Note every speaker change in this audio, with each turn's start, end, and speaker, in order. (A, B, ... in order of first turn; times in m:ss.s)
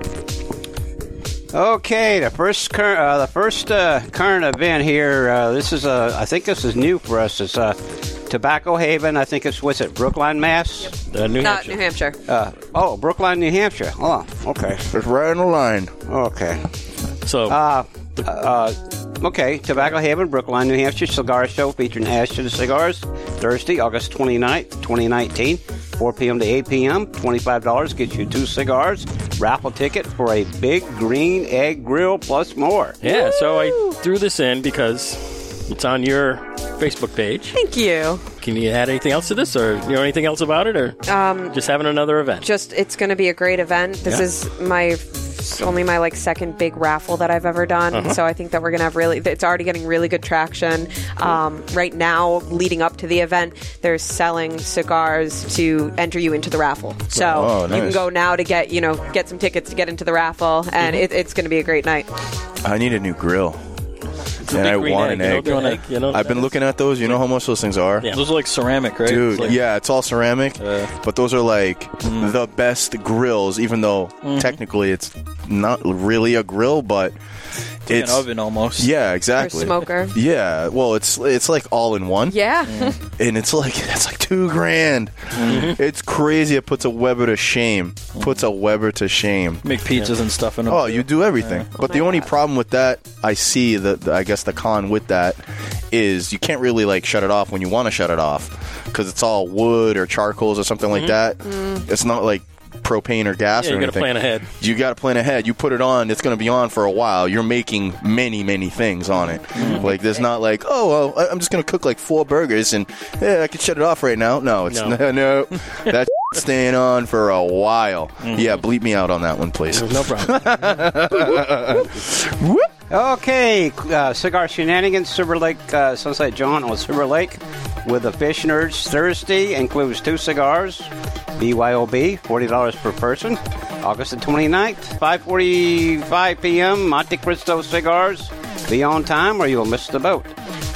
0:01.5-0:07.8 A
0:08.3-0:10.9 A
0:10.8-0:12.2 B
0:11.1-0:11.8 C
0:12.3-0:14.9 A
0:14.9-0:15.9 D
0:16.1-0:16.7 A
0:17.2-0:17.6 C
0:17.5-0:33.0 A
0:33.0-0:37.6 C
0:33.0-0:34.0 B
0:37.5-0:38.2 B
0:38.4-0:41.0 C
0:41.1-0:41.6 B
0:41.5-0:42.5 C
0:42.4-1:02.1 B
0:47.9-0:48.2 C
0:57.1-0:58.0 D
1:02.6-1:03.6 D
1:04.4-1:06.5 C
1:04.5-1:08.1 D
1:05.4-1:05.8 E
1:08.1-1:09.6 E
1:09.0-1:17.2 D
1:10.6-1:10.9 E
1:12.0-1:12.3 E
1:14.2-1:14.6 E
1:17.9-1:22.4 D
1:17.9-1:18.9 E
1:19.4-1:20.2 B
1:22.3-1:23.0 B
1:22.7-1:23.0 E
1:23.1-1:29.6 D
1:25.4-1:25.7 E
1:25.5-1:25.8 C
1:29.6-1:31.7 E
1:30.7-2:02.7 D
1:31.8-1:32.3 B
1:41.4-1:41.8 B
1:43.6-1:44.5 C
1:49.6-1:49.9 E
1:49.6-1:49.9 C
1:54.7-1:55.0 C
1:59.7-2:00.5 C
2:02.9-2:20.3 A